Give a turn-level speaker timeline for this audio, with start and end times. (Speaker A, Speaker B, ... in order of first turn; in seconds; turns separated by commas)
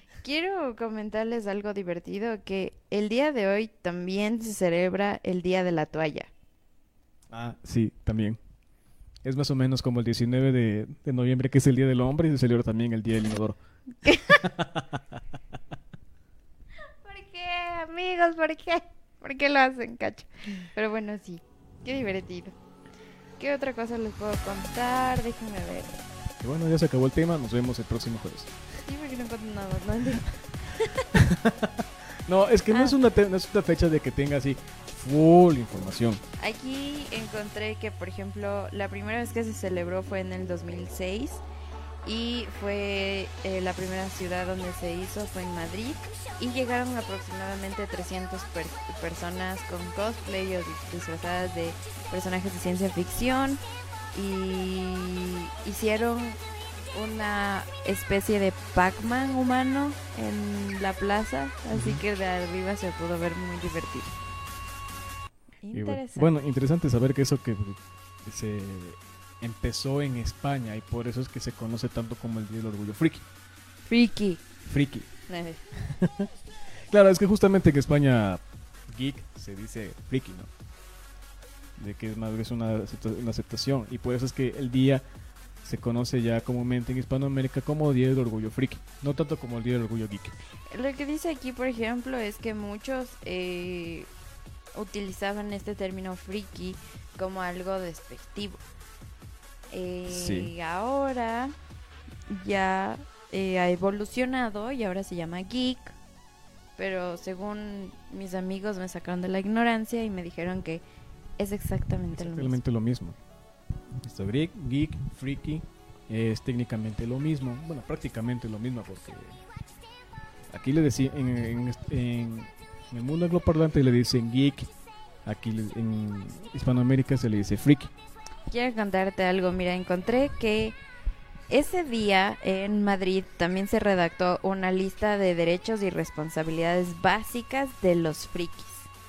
Speaker A: 0.2-6.3, Speaker B: 7.3-8.4, Speaker B: 9.2-13.6, Speaker A: 14.1-14.4, Speaker B: 14.4-14.8, Speaker A: 17.0-22.6, Speaker A: 23.4-25.9, Speaker B: 26.4-28.5, Speaker A: 28.9-31.1, Speaker B: 31.1-36.2, Speaker A: 32.7-33.0, Speaker A: 36.4-41.4, Speaker A: 42.0-53.6, Speaker A: 54.1-56.4, Speaker A: 56.9-64.2, Speaker B: 61.7-62.0, Speaker A: 65.6-66.3, Speaker B: 65.7-73.2, Speaker A: 73.9-74.4, Speaker B: 74.7-75.1, Speaker A: 75.3-75.7, Speaker B: 75.9-76.3, Speaker B: 76.9-80.5, Speaker B: 81.8-85.0, Speaker B: 85.6-90.3, Speaker A: 90.7-94.1, Speaker A: 94.7-98.6, Speaker A: 99.7-101.5, Speaker B: 100.1-100.5, Speaker A: 102.3-106.0, Speaker A: 106.8-110.8, Speaker A: 111.4-112.6, Speaker B: 112.1-113.2, Speaker B: 114.0-119.4, Speaker B: 120.5-124.7, Speaker B: 125.3-127.9, Speaker A: 128.5-130.8, Speaker A: 131.5-138.9